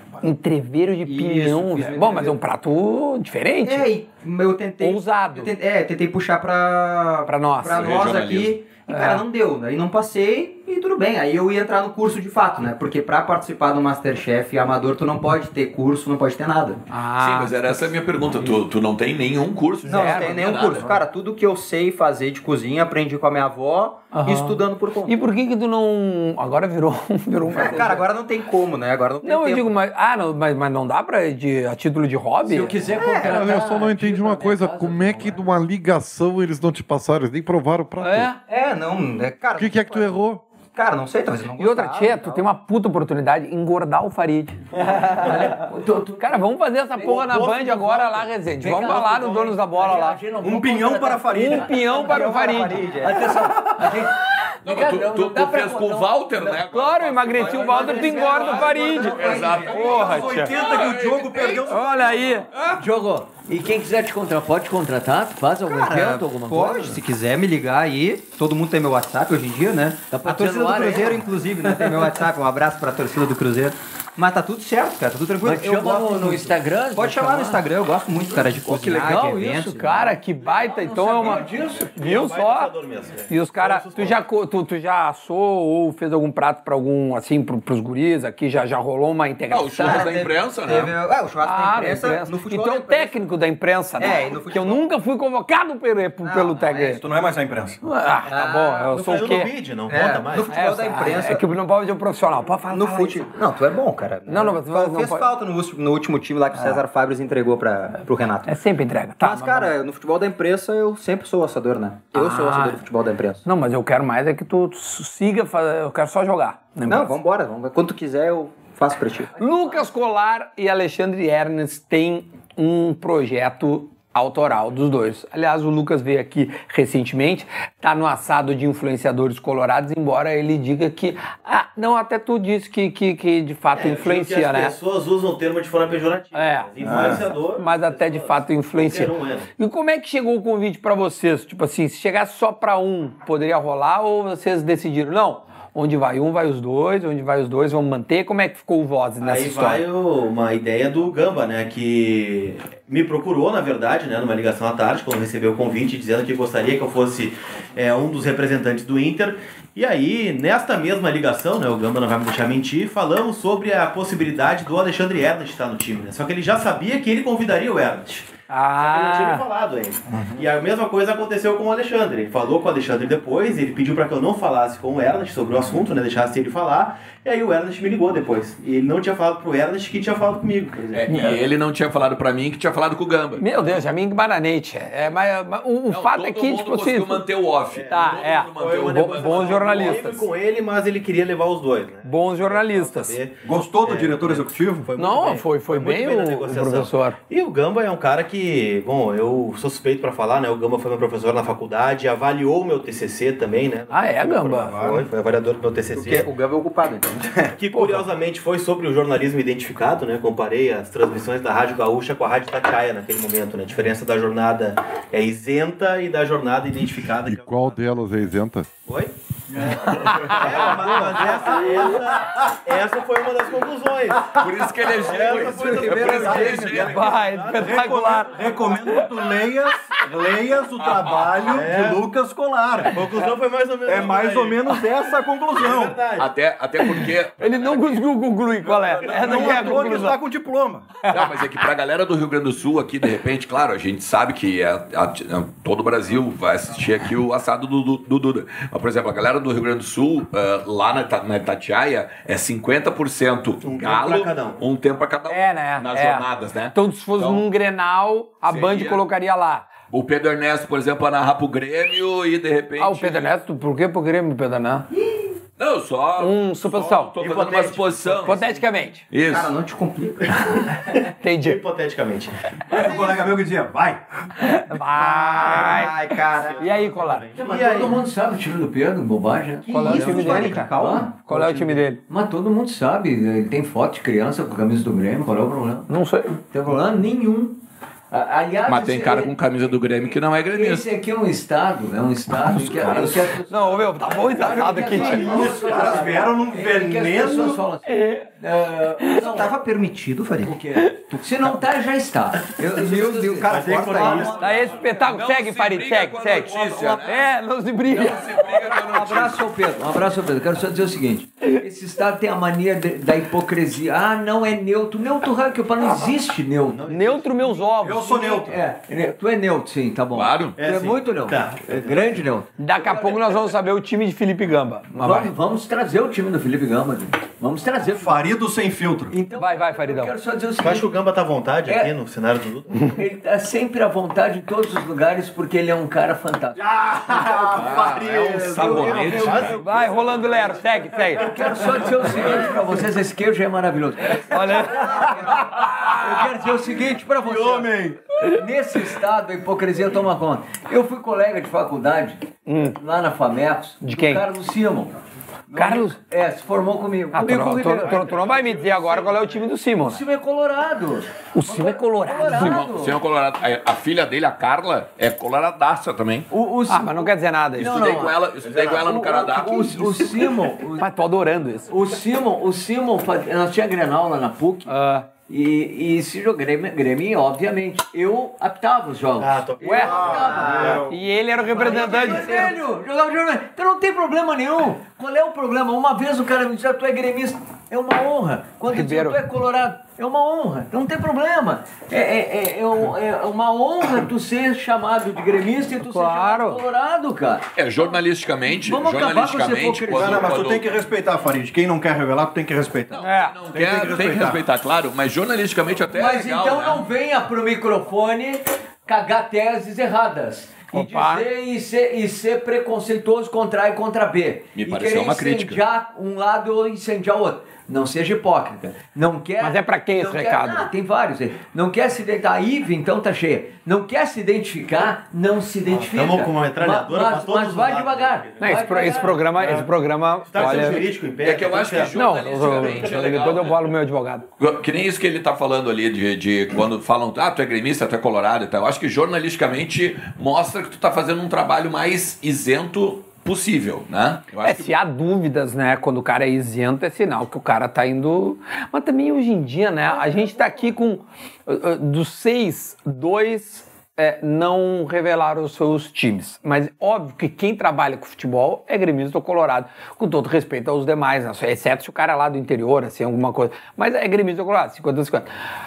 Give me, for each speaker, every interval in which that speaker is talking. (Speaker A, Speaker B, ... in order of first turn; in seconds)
Speaker A: 0.2-3.9, 4.8-5.5, 7.3-8.1, 8.9-9.2, 16.9-17.8, 19.9-20.4, 24.1-28.1, 29.2-32.8, 38.0-38.4, 41.6-45.6, 46.2-50.2, 51.3-53.0, 56.7-60.5, 61.6-62.5, 79.8-82.7, 83.3-90.1, 91.4-97.0, 97.8-99.5, 100.5-103.3, 104.3-105.3, 108.5-109.7, 112.1-112.8, 113.5-117.2, 119.4-134.8, 136.3-149.8, 168.5-169.4, 181.1-181.4, 183.4-187.3, 187.9-190.3, 192.0-193.2, 195.0-197.2, 203.9-204.8, 207.7-208.0, 219.8-221.7, 226.7-229.3, 236.8-240.2, 241.0-241.3, 255.3-259.7, 262.8-264.9, 266.2-267.2, 268.2-269.1, 271.2-271.6, 274.4-276.0, 276.6-277.3, 279.7-280.7, 281.3-282.0, 285.9-286.4, 293.5-295.4, 297.9-298.3, 304.4-308.4, 316.9-318.2, 322.6-325.3, 329.4-330.1, 339.6-341.4, 344.2-345.3, 352.5-352.8, 353.8-354.2, 355.5-356.0, 357.1-360.0, 361.3-362.7, 366.7-367.8, 370.8-371.7, 374.7-375.1, 379.6-380.0, 380.9-382.5, 388.7-389.2, 395.8-396.6, 403.0-403.4, 410.7-411.3, 419.4-420.7, 428.4-430.9, 431.9-434.3, 444.4-465.3
Speaker B: 1.0-2.4, 3.6-16.8, 19.8-25.1, 27.5-29.8, 33.0-33.5, 38.5-40.2, 40.7-42.5, 51.8-53.3, 57.6-59.6, 65.7-79.8, 89.8-93.2, 94.0-94.9, 96.2-97.0, 98.2-99.0, 99.9-101.5, 102.7-108.6, 109.2-113.4, 116.9-119.3, 205.9-207.6, 225.9-226.4, 269.2-270.5, 274.9-276.8, 279.6-281.7, 299.1-300.6, 302.7-304.4
Speaker C: 7.7-8.6, 17.2-21.0, 54.6-61.8, 89.5-91.0, 180.9-183.4, 185.9-190.0, 224.4-227.1, 236.2-238.1, 238.9-239.8, 241.1-257.4, 258.5-259.0, 259.9-263.3, 265.6-268.4, 269.1-269.5, 288.7-290.9, 304.9-307.4, 307.9-309.4, 320.1-320.6, 337.4-339.6, 362.3-366.3, 367.6-370.0, 397.6-400.7, 402.9-406.8, 414.6-415.6, 430.4-433.6, 434.4-444.7
Speaker D: 32.4-35.5, 45.0-52.1, 53.0-56.5, 57.4-60.4, 62.7-67.0, 70.1-71.9, 75.4-77.7, 78.3-81.9, 277.4-285.9, 286.5-289.3, 290.5-299.6, 300.4-305.0, 307.9-316.9, 318.0-323.5, 324.9-328.2, 329.1-330.9, 331.7-331.9, 332.8-336.7, 338.6-339.6, 341.2-358.1, 359.8-363.0, 366.3-370.9, 371.7-374.7, 375.3-380.8, 381.4-397.5, 398.6-400.4, 405.9-429.3
Speaker E: 33.2-38.3, 39.6-40.4, 217.2-218.7
Speaker F: 50.4-51.7, 53.4-54.0, 59.2-62.1, 97.0-97.8, 136.8-137.3, 193.4-194.9, 204.7-205.1, 225.2-226.9, 227.5-233.1, 233.9-236.0, 239.1-240.9, 272.7-274.0, 295.1-297.6, 317.8-318.6, 327.9-329.1, 336.8-338.8, 379.8-380.9, 399.9-403.0, 403.5-404.4
Speaker G: 81.9-84.2, 98.9-100.6, 133.7-139.5, 149.2-181.1, 187.7-206.3, 207.5-217.9, 218.9-224.4, 224.9-227.9, 231.5-232.0, 232.9-234.7, 235.5-236.3, 253.6-254.6, 267.1-268.6, 270.5-273.2, 275.5-278.0, 303.4-304.7, 316.7-317.7, 320.6-322.2, 330.6-333.0, 336.7-342.4, 357.8-359.5, 379.2-381.0, 382.0-382.4, 425.7-429.7, 430.2-433.1